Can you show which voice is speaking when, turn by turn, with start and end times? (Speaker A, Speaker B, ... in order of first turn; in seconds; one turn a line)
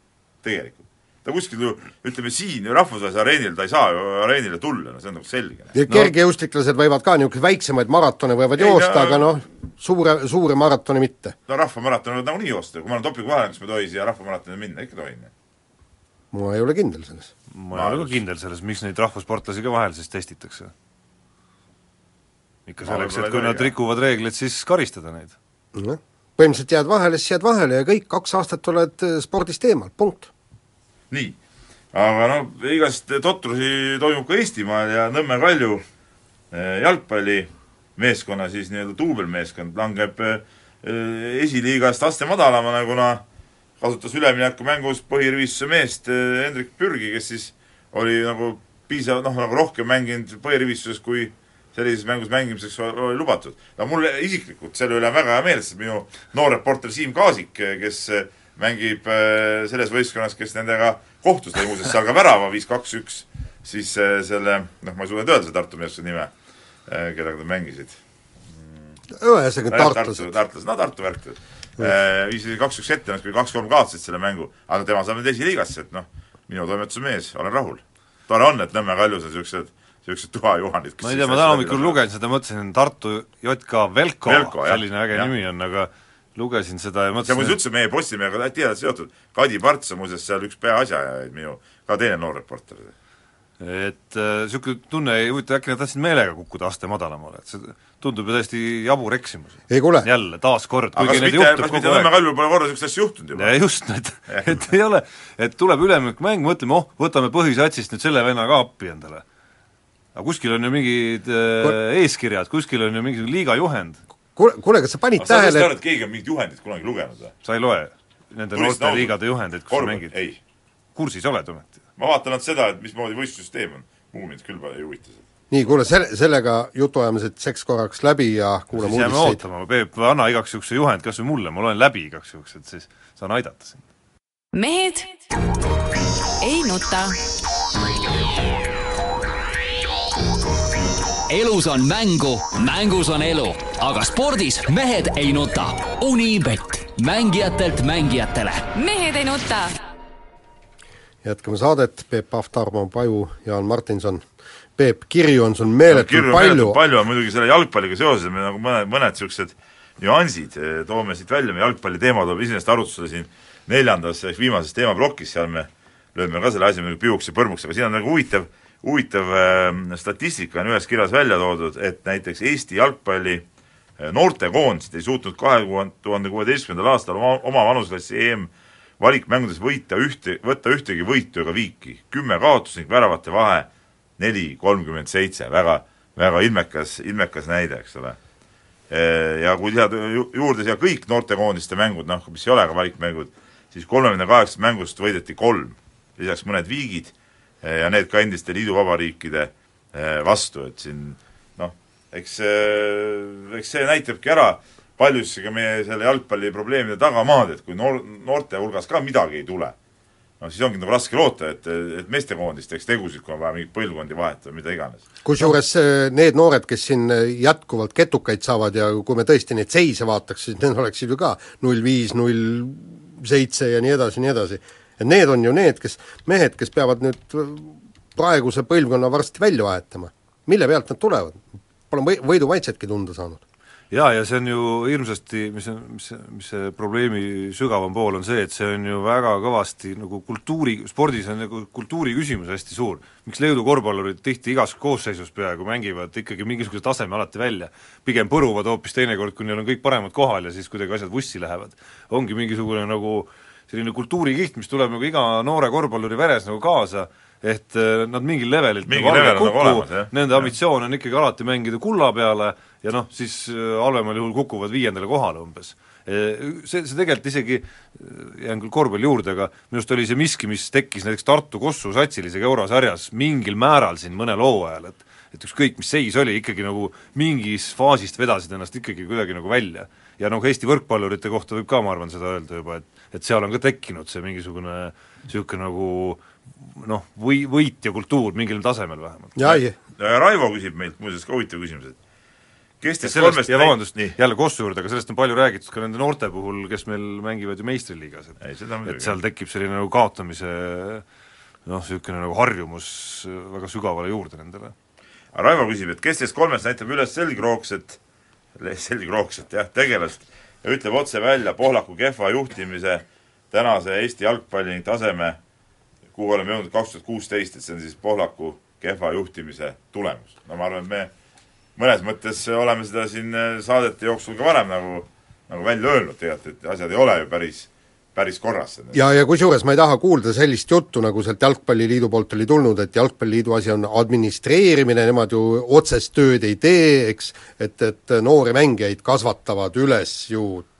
Speaker A: 0.4-5.8
Speaker B: 5.7-11.4
Speaker A: 8.6-9.3
Speaker A: 11.5-15.3
Speaker B: 16.3-17.3
Speaker C: 17.5-20.7
Speaker A: 17.7-18.2
Speaker C: 22.7-25.4
Speaker A: 22.8-23.7
Speaker B: 25.8-30.3
Speaker A: 31.1-31.4
Speaker A: 31.9-35.8
Speaker A: 36.5-43.2
Speaker A: 43.8-66.3
Speaker A: 66.9-68.0
Speaker A: 68.5-68.9
Speaker B: 69.1-70.3
Speaker A: 69.7-82.0
Speaker C: 81.0-87.5
Speaker A: 84.3-85.3
Speaker A: 87.3-92.9
Speaker C: 93.6-102.1
Speaker B: 99.7-100.1
Speaker A: 101.0-103.6
Speaker C: 103.3-109.2
Speaker A: 104.3-104.5
Speaker C: 110.2-114.0
Speaker B: 114.4-115.7
Speaker A: 115.2-117.3
Speaker C: 117.4-120.1
Speaker A: 118.5-119.2
Speaker A: 119.7-120.4
Speaker C: 121.0-121.8
Speaker A: 122.0-125.2
Speaker B: 125.5-129.4
Speaker C: 128.7-133.8
Speaker D: 134.5-135.2
Speaker D: 136.4-137.2
Speaker E: 141.3-148.7
Speaker D: 148.8-149.7
Speaker B: 151.2-154.2
Speaker B: 154.8-156.8
Speaker A: 155.9-173.4
Speaker A: 174.0-188.2
Speaker A: 188.9-209.8
Speaker A: 210.4-215.0
Speaker B: 215.2-233.4
Speaker C: 233.9-289.6
Speaker A: 258.9-260.5
Speaker B: 289.4-289.7
Speaker A: 290.0-292.0
Speaker A: 292.8-294.1
Speaker C: 293.0-301.0
Speaker A: 298.4-299.2
Speaker C: 301.7-304.7
Speaker A: 305.3-308.0
Speaker A: 308.6-315.4
Speaker A: 316.1-321.1
Speaker A: 321.8-329.0
Speaker B: 328.9-340.7